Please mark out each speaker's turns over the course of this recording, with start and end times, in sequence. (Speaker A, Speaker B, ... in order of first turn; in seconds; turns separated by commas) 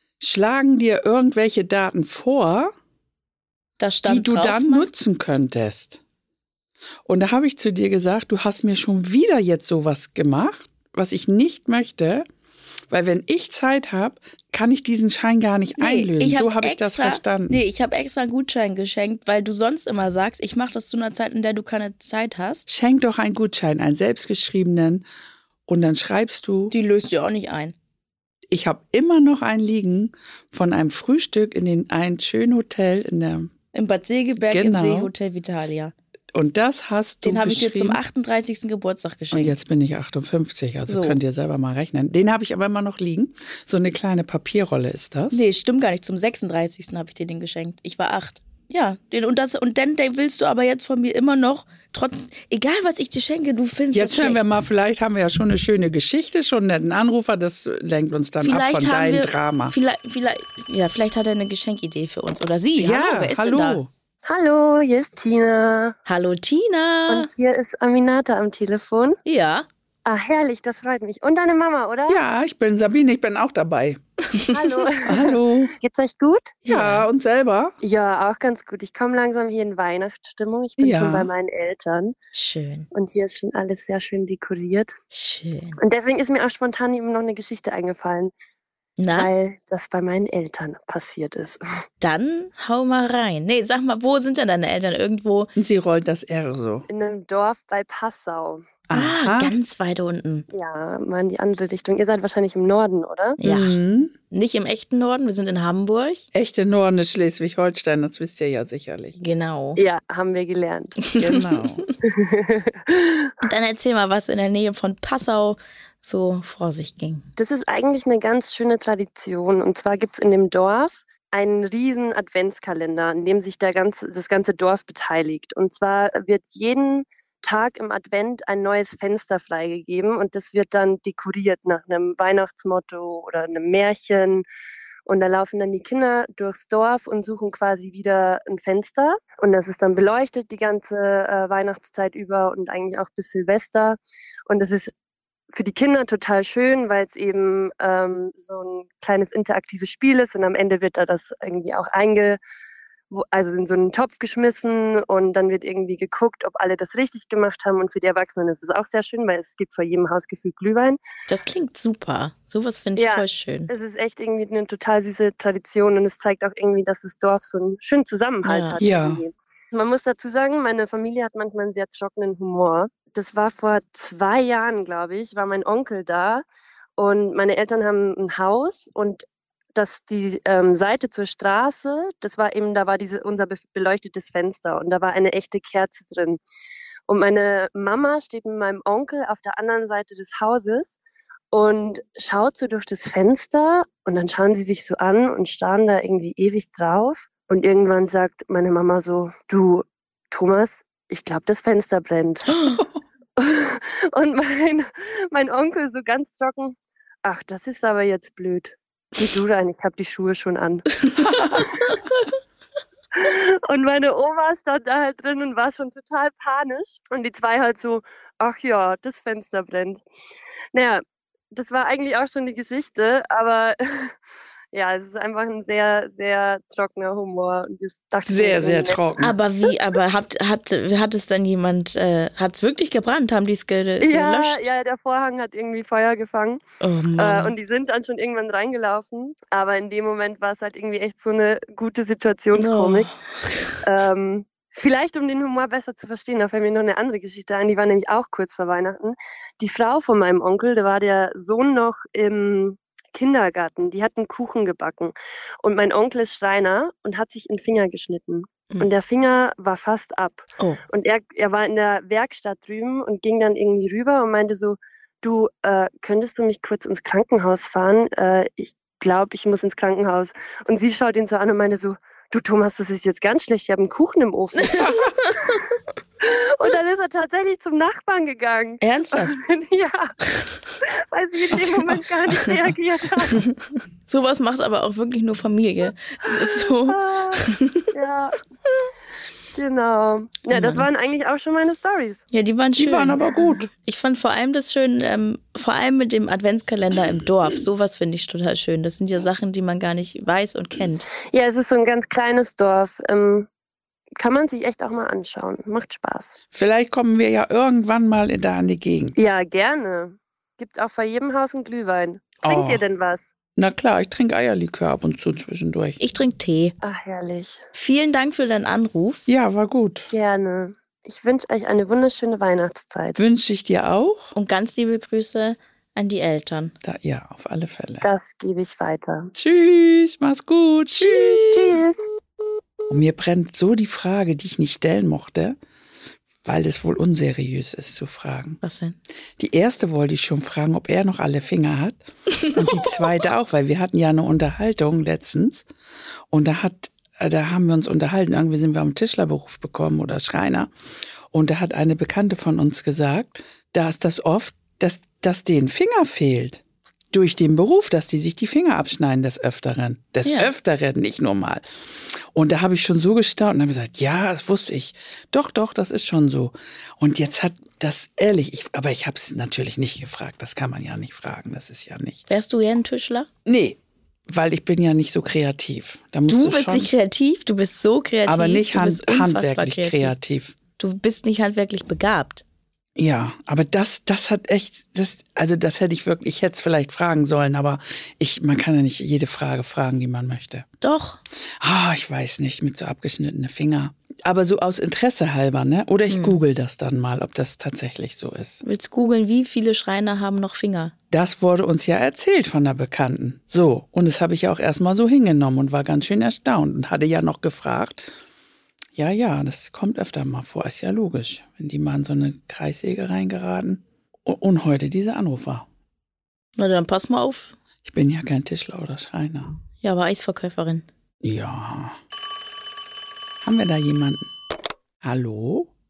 Speaker A: 0.2-2.7, Speaker B: 3.8-4.9, Speaker A: 4.0-6.0, Speaker A: 7.0-12.2, Speaker A: 12.9-17.6, Speaker B: 15.8-22.7, Speaker A: 22.7-25.0, Speaker A: 25.7-26.7, Speaker B: 26.7-27.7, Speaker A: 28.5-33.5, Speaker B: 33.7-35.9, Speaker A: 34.4-35.1, Speaker A: 36.3-38.0, Speaker B: 37.2-39.5, Speaker A: 39.3-45.4, Speaker B: 40.9-41.2, Speaker B: 45.3-54.5, Speaker A: 53.9-59.7, Speaker B: 58.4-63.8, Speaker A: 62.8-63.9, Speaker C: 64.2-65.9, Speaker B: 66.0-67.3, Speaker C: 67.1-69.2, Speaker B: 69.2-69.7, Speaker C: 70.0-72.2, Speaker A: 72.1-74.0, Speaker C: 74.5-76.6, Speaker A: 75.0-75.7, Speaker B: 76.6-77.1, Speaker A: 76.7-77.7, Speaker C: 77.8-82.1, Speaker A: 80.8-81.3, Speaker B: 82.3-82.9, Speaker C: 82.9-84.9, Speaker B: 85.1-85.8, Speaker C: 85.8-88.3, Speaker B: 89.0-89.3, Speaker C: 89.2-91.6, Speaker B: 92.0-95.5, Speaker A: 95.5-96.8, Speaker C: 96.9-98.6, Speaker A: 98.9-99.5, Speaker B: 98.9-100.5, Speaker C: 100.5-103.4, Speaker B: 103.4-103.8, Speaker A: 103.4-104.1, Speaker B: 104.3-106.3, Speaker A: 106.3-109.2, Speaker B: 109.2-109.8, Speaker C: 109.8-111.1, Speaker B: 111.1-111.5, Speaker A: 111.2-111.9, Speaker C: 112.3-113.3, Speaker B: 113.4-117.2, Speaker C: 117.4-134.4, Speaker C: 135.1-144.9, Speaker C: 145.5-152.4, Speaker C: 153.1-161.0, Speaker B: 161.3-163.7, Speaker C: 163.0-176.4, Speaker B: 168.4-168.8, Speaker A: 168.8-169.2, Speaker C: 177.0-179.2, Speaker C: 179.7-186.4, Speaker C: 187.1-191.0, Speaker C: 191.5-202.6, Speaker C: 203.4-210.9, Speaker A: 211.2-211.7, Speaker C: 213.1-220.0, Speaker C: 220.7-224.1, Speaker C: 224.7-229.1, Speaker A: 228.2-229.3, Speaker B: 229.2-234.7, Speaker C: 234.0-236.6, Speaker B: 236.8-237.6, Speaker C: 237.2-243.1, Speaker B: 242.5-243.7, Speaker C: 243.8-274.8, Speaker B: 274.6-275.3, Speaker A: 274.8-275.1, Speaker C: 276.2-280.1, Speaker B: 278.8-279.3, Speaker C: 281.1-283.4, Speaker B: 281.5-282.6, Speaker B: 284.1-287.9, Speaker C: 286.9-288.4, Speaker C: 289.5-292.2, Speaker B: 290.5-290.9, Speaker B: 292.3-301.1, Speaker A: 292.8-293.7, Speaker C: 301.3-303.5, Speaker C: 304.2-306.4, Speaker A: 306.5-309.1, Speaker C: 309.1-313.3, Speaker A: 312.4-312.8, Speaker A: 313.6-316.0, Speaker B: 316.0-316.8, Speaker C: 316.8-317.6, Speaker B: 317.7-319.3, Speaker A: 319.3-320.1, Speaker C: 320.1-323.2, Speaker A: 323.2-324.3, Speaker B: 324.3-326.7, Speaker A: 326.8-328.1, Speaker C: 328.0-329.3, Speaker A: 329.4-331.8, Speaker B: 331.1-331.4, Speaker C: 331.5-332.0, Speaker A: 332.9-335.6, Speaker A: 336.4-338.6, Speaker B: 338.6-339.0, Speaker A: 339.4-345.7, Speaker B: 342.6-342.8, Speaker A: 346.3-350.7, Speaker A: 351.3-372.2, Speaker B: 360.2-360.5, Speaker B: 372.3-373.3, Speaker A: 373.4-376.9, Speaker B: 376.3-380.1, Speaker A: 378.3-380.6, Speaker B: 380.8-382.4, Speaker A: 382.9-390.6, Speaker B: 390.8-391.2, Speaker A: 391.6-398.6, Speaker B: 396.1-396.4, Speaker B: 398.6-400.9, Speaker A: 401.1-408.0, Speaker A: 408.9-415.6, Speaker B: 416.6-417.6, Speaker A: 417.8-419.5, Speaker B: 419.8-420.9, Speaker A: 421.2-422.0, Speaker A: 423.4-424.2, Speaker A: 425.0-425.7